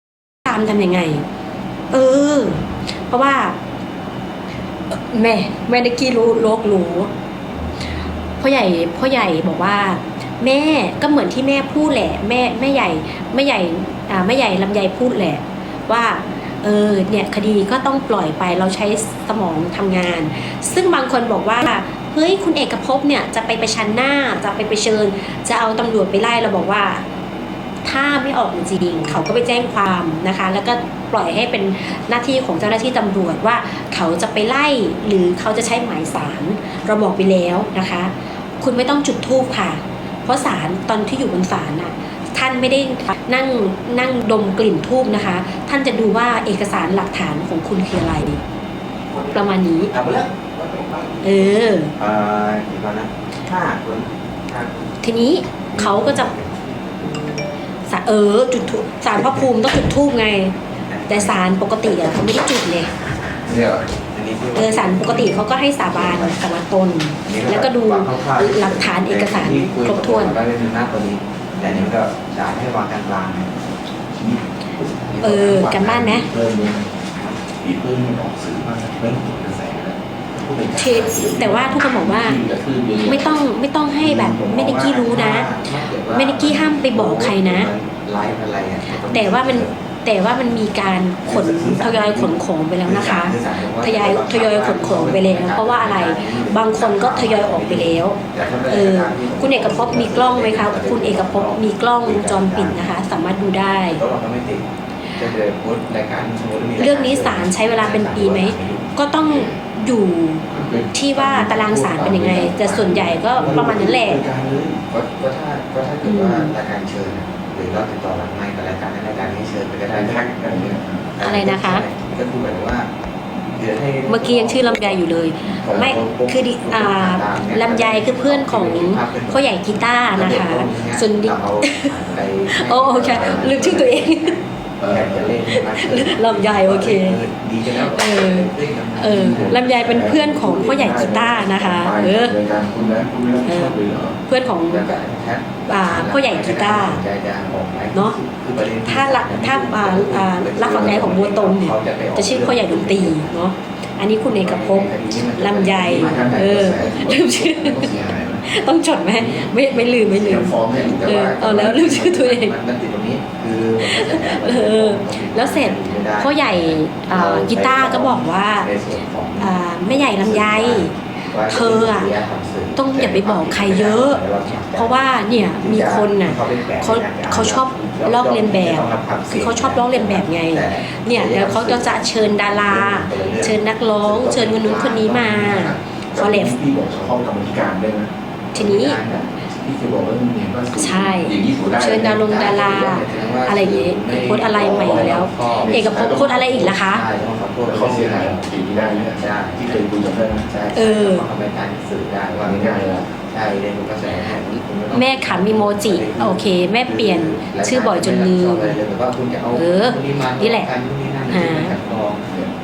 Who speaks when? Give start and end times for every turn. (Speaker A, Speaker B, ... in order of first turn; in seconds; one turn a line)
Speaker A: 0.5-1.2
Speaker A: 1.9-3.6
Speaker A: 4.9-7.1
Speaker A: 8.4-27.0
Speaker A: 27.8-48.4
Speaker B: 49.1-49.5
Speaker A: 49.3-49.9
Speaker C: 49.9-51.4
Speaker B: 50.6-51.5
Speaker A: 51.2-51.9
Speaker C: 52.0-55.0
Speaker A: 55.0-56.3
Speaker C: 55.7-57.3
Speaker A: 57.9-60.5
Speaker C: 60.9-61.4
Speaker A: 61.1-62.9
Speaker B: 63.5-63.9
Speaker C: 64.1-66.4
Speaker A: 64.5-70.4
Speaker C: 67.2-73.5
Speaker B: 74.2-76.9
Speaker A: 75.2-76.3
Speaker C: 77.2-77.4
Speaker B: 77.5-83.4
Speaker A: 80.8-82.4
Speaker A: 83.0-85.5
Speaker B: 84.0-84.7
Speaker C: 84.2-89.8
Speaker A: 86.1-87.7
Speaker A: 89.1-104.0
Speaker C: 91.2-102.8
Speaker C: 103.9-109.0
Speaker A: 106.8-114.3
Speaker B: 109.2-109.6
Speaker B: 110.5-114.8
Speaker C: 113.4-114.1
Speaker C: 114.9-120.3
Speaker A: 116.0-116.5
Speaker B: 119.9-121.1
Speaker C: 121.2-122.9
Speaker A: 121.2-121.9
Speaker C: 123.5-125.0
Speaker A: 124.1-131.9
Speaker B: 125.4-125.9
Speaker C: 125.6-139.8
Speaker A: 132.5-134.4
Speaker B: 132.9-133.8
Speaker B: 134.8-135.3
Speaker A: 135.5-142.4
Speaker B: 139.0-144.2
Speaker A: 143.4-144.9
Speaker C: 144.7-153.4
Speaker A: 145.7-147.0
Speaker A: 148.8-162.5
Speaker B: 150.6-151.0
Speaker C: 154.2-157.2
Speaker B: 155.7-158.5
Speaker B: 159.2-159.5
Speaker B: 160.1-161.3
Speaker C: 160.8-185.6
Speaker A: 163.8-168.7
Speaker A: 169.4-172.1
Speaker A: 172.8-174.2
Speaker A: 174.7-186.6
Speaker B: 184.5-188.1
Speaker A: 188.5-189.0
Speaker C: 188.5-189.3
Speaker B: 189.1-192.3
Speaker A: 190.8-197.0
Speaker C: 192.0-198.5
Speaker B: 194.5-196.7
Speaker B: 197.7-200.5
Speaker C: 199.1-199.8
Speaker C: 200.5-212.3
Speaker A: 200.7-201.2
Speaker B: 202.4-203.1
Speaker A: 204.9-208.8
Speaker A: 209.5-210.7
Speaker A: 211.3-211.7
Speaker B: 212.3-212.5